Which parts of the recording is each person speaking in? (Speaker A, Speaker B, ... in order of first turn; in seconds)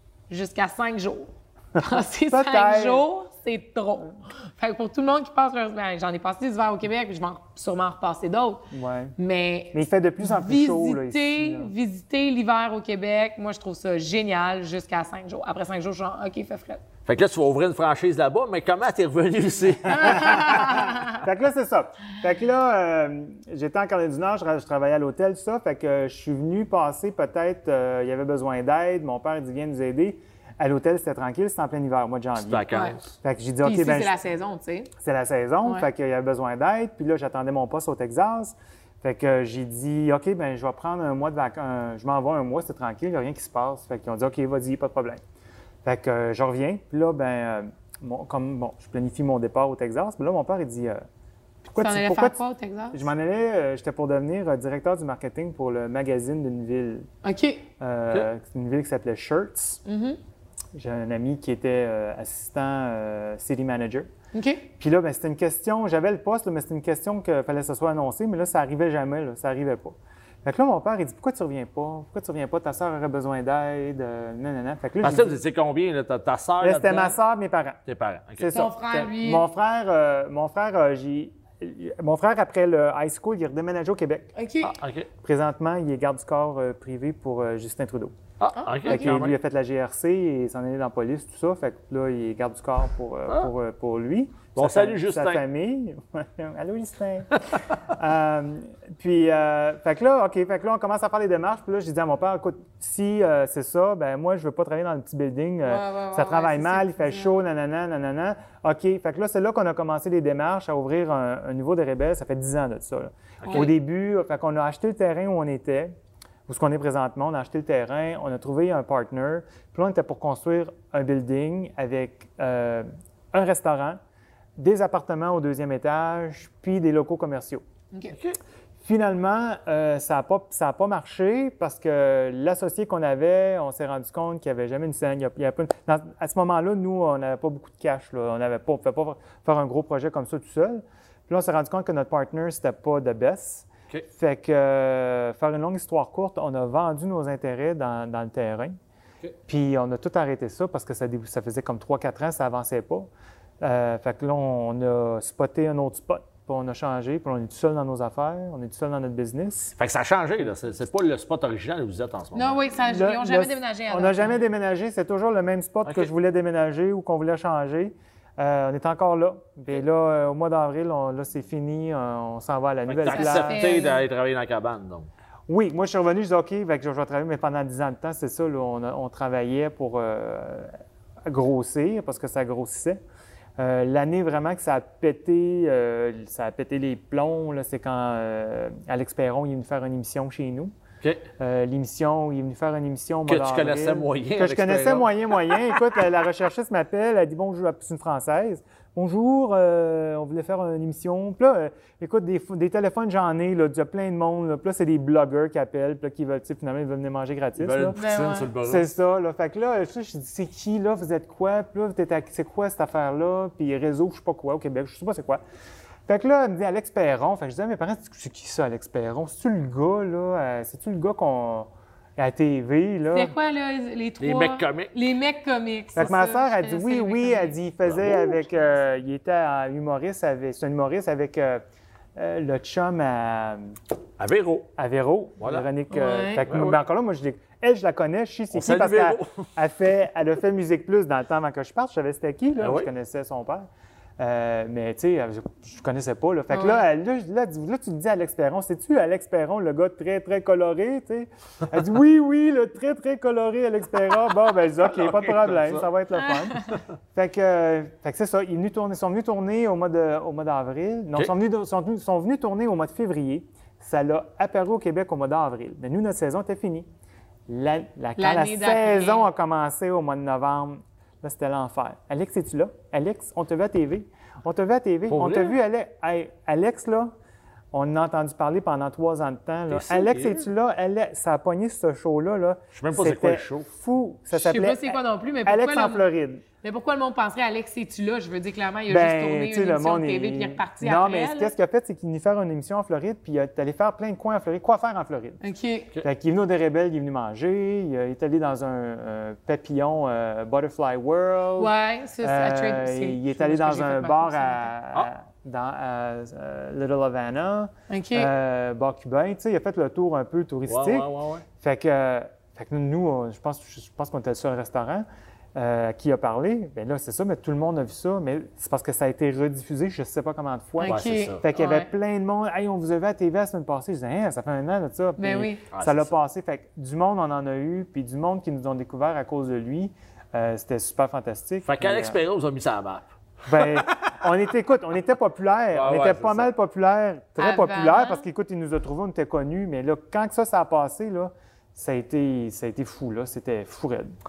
Speaker A: 0.3-16.8, 20.0-21.2, 32.7-33.0, 33.6-34.9, 51.8-53.1, 57.2-57.6, 59.9-60.2, 64.3-64.7, 78.5-79.5, 84.4-84.8, 88.6-89.2, 105.6-107.4, 113.5-113.7, 162.3-164.4, 173.1-174.0, 208.0-208.5, 223.1-227.6, 235.9-236.5, 246.5-246.8, 256.3-256.6, 268.2-269.3, 284.3-286.1, 286.6-291.5, 295.4-295.9, 301.6-304.7, 307.9-308.3, 320.8-321.9, 325.2-325.6, 337.4-338.2
Speaker B: 1.8-3.1, 8.7-9.2, 9.7-11.7, 19.9-34.2, 35.0-45.2, 45.9-51.0, 51.6-52.4, 52.9-57.1, 57.8-59.8, 60.8-64.1, 64.8-75.4, 76.6-77.8, 78.4-84.3, 85.2-88.2, 88.8-115.9, 116.5-124.0, 124.6-127.6, 128.8-148.8, 149.5-153.1, 153.6-159.7, 162.8-173.8, 175.5-180.7, 181.2-183.0, 183.6-190.7, 191.4-208.0, 208.6-215.4, 216.1-223.3, 225.9-231.6, 232.2-233.7, 234.8-243.7, 244.2-266.9, 267.5-277.1, 277.7-286.4, 288.9-295.4, 296.0-332.2, 333.5-344.1
Speaker C: 17.1-20.4, 32.4-33.0, 75.0-77.2, 77.9-78.5, 84.6-85.1, 88.4-89.3, 94.5-95.4, 113.4-113.7, 128.1-128.4, 159.8-162.6, 172.9-175.1, 193.3-195.2, 207.6-208.9, 224.2-224.9, 227.8-228.4, 234.2-234.7, 235.4-235.7, 236.4-236.8, 238.5-239.4, 242.6-242.9, 255.0-255.9, 275.1-275.6, 279.7-280.5, 282.8-283.7, 310.7-311.4, 320.9-321.4, 325.7-326.1, 331.6-334.1, 335.7-336.5